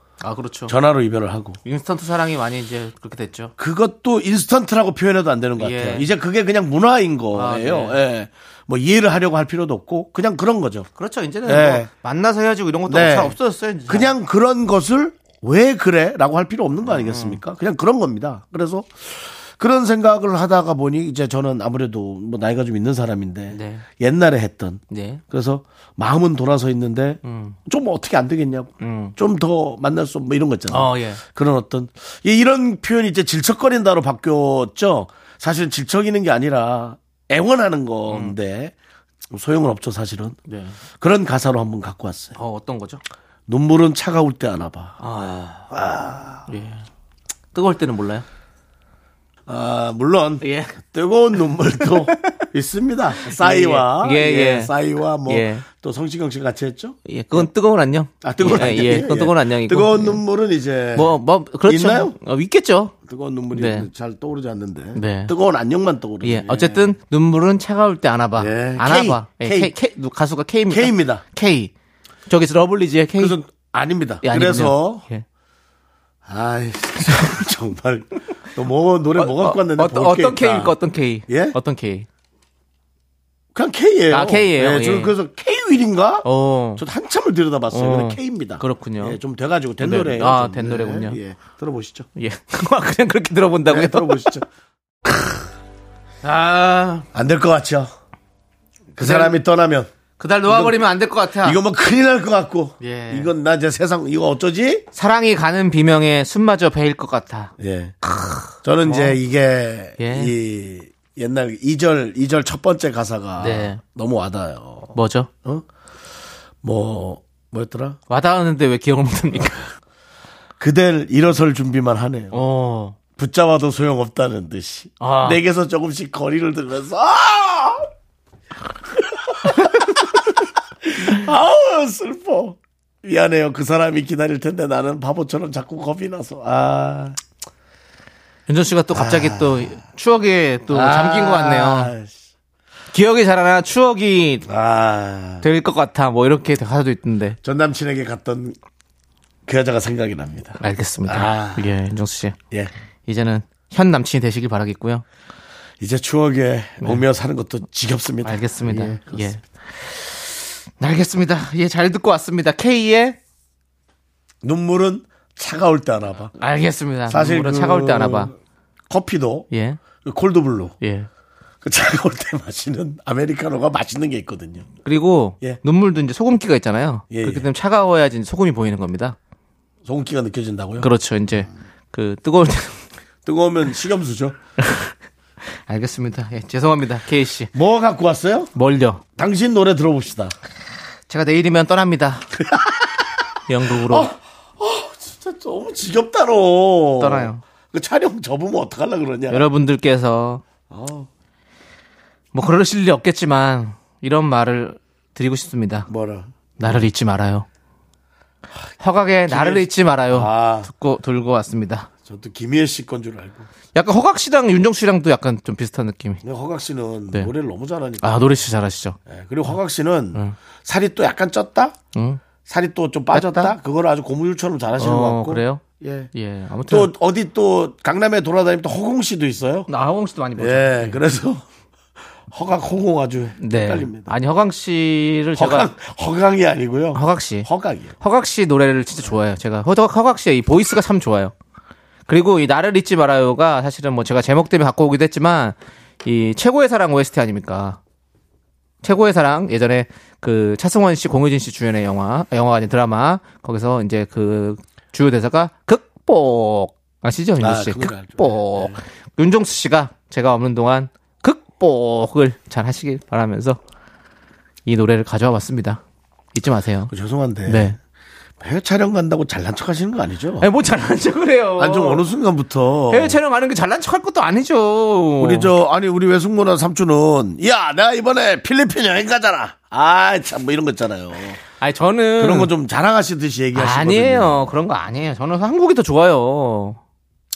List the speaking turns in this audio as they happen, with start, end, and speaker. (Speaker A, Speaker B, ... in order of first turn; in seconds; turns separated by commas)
Speaker A: 0.2-0.8, Speaker B: 0.7-1.6, Speaker A: 1.6-3.5, Speaker B: 3.6-10.9, Speaker A: 5.6-6.1, Speaker A: 7.3-8.0, Speaker A: 11.0-14.1, Speaker B: 11.4-11.9, Speaker B: 12.9-13.4, Speaker B: 13.9-38.7, Speaker A: 16.9-17.4, Speaker A: 23.5-23.9, Speaker A: 24.9-25.2, Speaker A: 27.2-27.6, Speaker A: 28.8-29.1, Speaker A: 30.7-31.2, Speaker A: 38.1-38.4, Speaker B: 39.3-40.4, Speaker A: 40.5-40.8, Speaker B: 41.0-42.4, Speaker A: 42.4-43.0, Speaker B: 43.5-45.1, Speaker A: 45.0-45.7, Speaker B: 45.7-46.5, Speaker A: 46.5-46.9, Speaker A: 47.5-48.2, Speaker B: 49.5-57.5, Speaker A: 50.4-50.8, Speaker A: 51.9-52.4, Speaker A: 53.2-54.7, Speaker A: 55.2-55.6, Speaker A: 57.1-60.2, Speaker B: 58.2-62.1, Speaker A: 60.9-62.9, Speaker B: 63.0-66.9, Speaker A: 63.5-63.9, Speaker A: 64.9-65.3, Speaker A: 66.2-71.7, Speaker B: 68.4-69.7, Speaker B: 70.7-71.2, Speaker A: 72.3-73.4, Speaker B: 73.2-75.0, Speaker A: 74.2-75.2, Speaker B: 76.2-80.7, Speaker A: 79.2-82.1, Speaker B: 81.3-81.6, Speaker B: 83.5-92.1, Speaker A: 84.1-85.1, Speaker A: 86.2-86.8, Speaker A: 87.7-89.2, Speaker A: 89.8-91.2, Speaker A: 92.2-94.3, Speaker B: 93.7-94.4, Speaker A: 96.2-97.1, Speaker B: 97.1-97.9, Speaker B: 99.0-99.9, Speaker A: 99.0-99.4, Speaker A: 100.2-101.6, Speaker B: 100.5-100.9, Speaker B: 101.4-104.8, Speaker A: 102.8-103.3, Speaker A: 104.9-109.2, Speaker B: 107.6-108.0, Speaker B: 108.6-115.6, Speaker A: 110.0-110.3, Speaker A: 113.4-113.8, Speaker A: 114.9-115.3, Speaker B: 116.6-118.0, Speaker A: 118.1-119.7, Speaker B: 120.6-122.4, Speaker A: 122.3-123.0, Speaker B: 123.2-127.9, Speaker A: 125.0-125.4, Speaker B: 128.9-137.2, Speaker A: 138.5-141.9, Speaker B: 138.9-139.7, Speaker B: 140.7-142.2, Speaker A: 142.9-144.4, Speaker B: 144.4-145.5, Speaker A: 145.4-147.4, Speaker B: 147.4-148.6, Speaker B: 149.4-151.7, Speaker A: 150.6-152.4, Speaker A: 153.1-155.0, Speaker B: 155.8-159.3, Speaker A: 158.2-163.2, Speaker B: 164.4-166.3, Speaker A: 166.4-168.3, Speaker B: 167.1-168.3, Speaker B: 168.9-169.5, Speaker A: 169.5-169.8, Speaker B: 170.0-170.8, Speaker A: 170.8-171.1, Speaker B: 171.6-174.7, Speaker A: 174.8-179.2, Speaker B: 177.1-177.5, Speaker B: 179.8-180.9, Speaker A: 180.8-182.8, Speaker B: 183.2-184.4, Speaker A: 184.6-184.9, Speaker A: 185.7-187.5, Speaker B: 187.5-188.5, Speaker A: 188.5-189.0, Speaker B: 189.2-190.3, Speaker A: 191.1-192.3, Speaker B: 192.4-193.0, Speaker A: 193.5-194.1, Speaker B: 193.7-199.5, Speaker A: 197.0-197.4, Speaker A: 199.3-200.4, Speaker B: 200.7-201.1, Speaker A: 202.3-205.9, Speaker B: 205.9-206.8, Speaker A: 206.6-207.5, Speaker A: 208.8-211.9, Speaker B: 209.3-210.7, Speaker B: 212.0-213.5, Speaker A: 213.7-216.2, Speaker B: 216.2-218.3, Speaker A: 218.0-219.0, Speaker B: 219.1-221.8, Speaker A: 221.9-222.2, Speaker B: 222.4-226.1, Speaker A: 223.1-223.5, Speaker A: 224.8-226.9, Speaker B: 226.7-229.7, Speaker A: 229.7-231.0, Speaker B: 230.4-231.4, Speaker B: 232.3-234.1, Speaker A: 233.4-235.7, Speaker B: 235.3-237.9, Speaker A: 236.9-237.5, Speaker A: 238.0-241.3, Speaker A: 242.1-247.8, Speaker A: 248.8-263.6, Speaker B: 257.4-258.8, Speaker A: 264.6-265.8, Speaker A: 266.3-266.9, Speaker B: 266.9-267.8, Speaker A: 267.4-267.8, Speaker B: 268.4-270.5, Speaker A: 270.4-272.0, Speaker B: 271.6-273.2, Speaker A: 272.9-275.5, Speaker B: 275.2-281.4, Speaker A: 281.6-282.5, Speaker B: 282.2-284.5, Speaker A: 283.5-286.8